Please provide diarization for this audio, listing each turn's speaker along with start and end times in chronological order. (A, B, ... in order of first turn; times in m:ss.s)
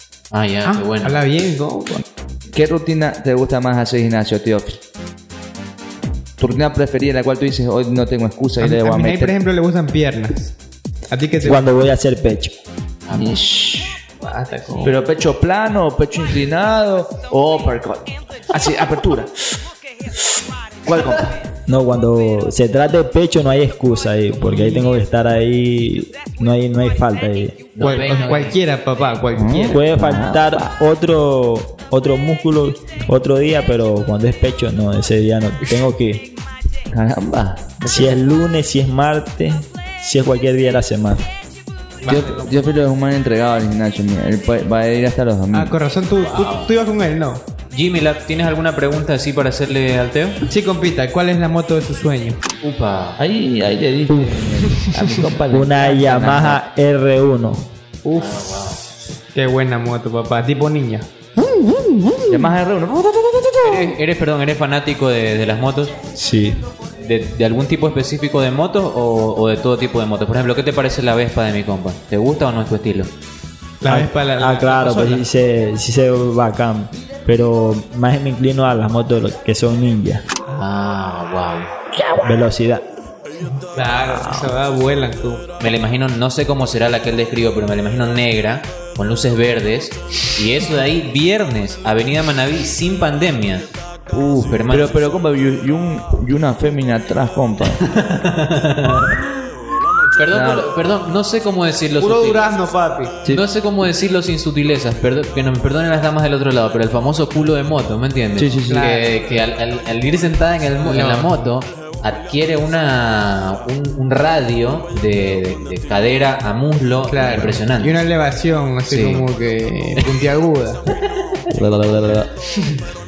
0:00.3-0:01.2 A
0:00.6-0:02.0 B
0:02.5-0:04.8 C
0:06.4-0:09.3 C
0:08.6-0:10.5 B
0:11.1-0:11.8 B
0:11.4-0:12.6 D
0:13.1-0:13.4 A
0:13.1-0:14.0 C
0:14.2-0:15.0 B
0:14.8-0:19.3 C
0:20.8-0:21.3 C
0:21.7-0:27.6 D
0:24.5-0:24.9 B
0:27.7-0:28.6 A
0:27.8-0:29.8 B
0:29.3-0:30.6 C
0:29.7-0:36.2 D
0:36.9-0:38.1 C
0:37.8-0:41.2 D
0:42.0-0:42.6 B
0:42.1-0:45.7 C
0:45.5-0:47.4 B
0:46.2-0:46.7 A
0:47.7-0:50.4 A
0:50.5-0:52.4 B
0:52.6-0:53.2 A
0:53.2-0:56.6 C
0:54.1-0:54.4 D
0:54.6-0:55.0 B
0:55.5-0:57.7 D
0:58.0-0:58.3 B
0:58.2-0:58.8 A
0:59.3-1:01.1 B
1:02.3-1:04.0 C
1:03.6-1:05.9 A
1:06.1-1:06.6 D
1:07.0-1:13.1 A
1:13.8-1:15.2 B
1:13.8-1:20.2 D
1:20.5-1:21.7 A
1:22.2-1:22.8 D
1:23.7-1:25.4 B
1:25.6-1:35.0 A
1:34.7-1:37.8 C
1:37.8-1:39.2 A
1:40.2-1:42.4 A
1:40.3-1:40.7 C
1:42.0-1:43.2 B
1:43.3-1:57.9 A
1:48.4-1:48.8 C
1:48.7-1:49.1 B
1:50.8-1:51.4 B
1:57.1-2:00.8 B
1:58.9-1:59.2 A
2:01.5-2:02.3 C
2:02.5-2:02.8 B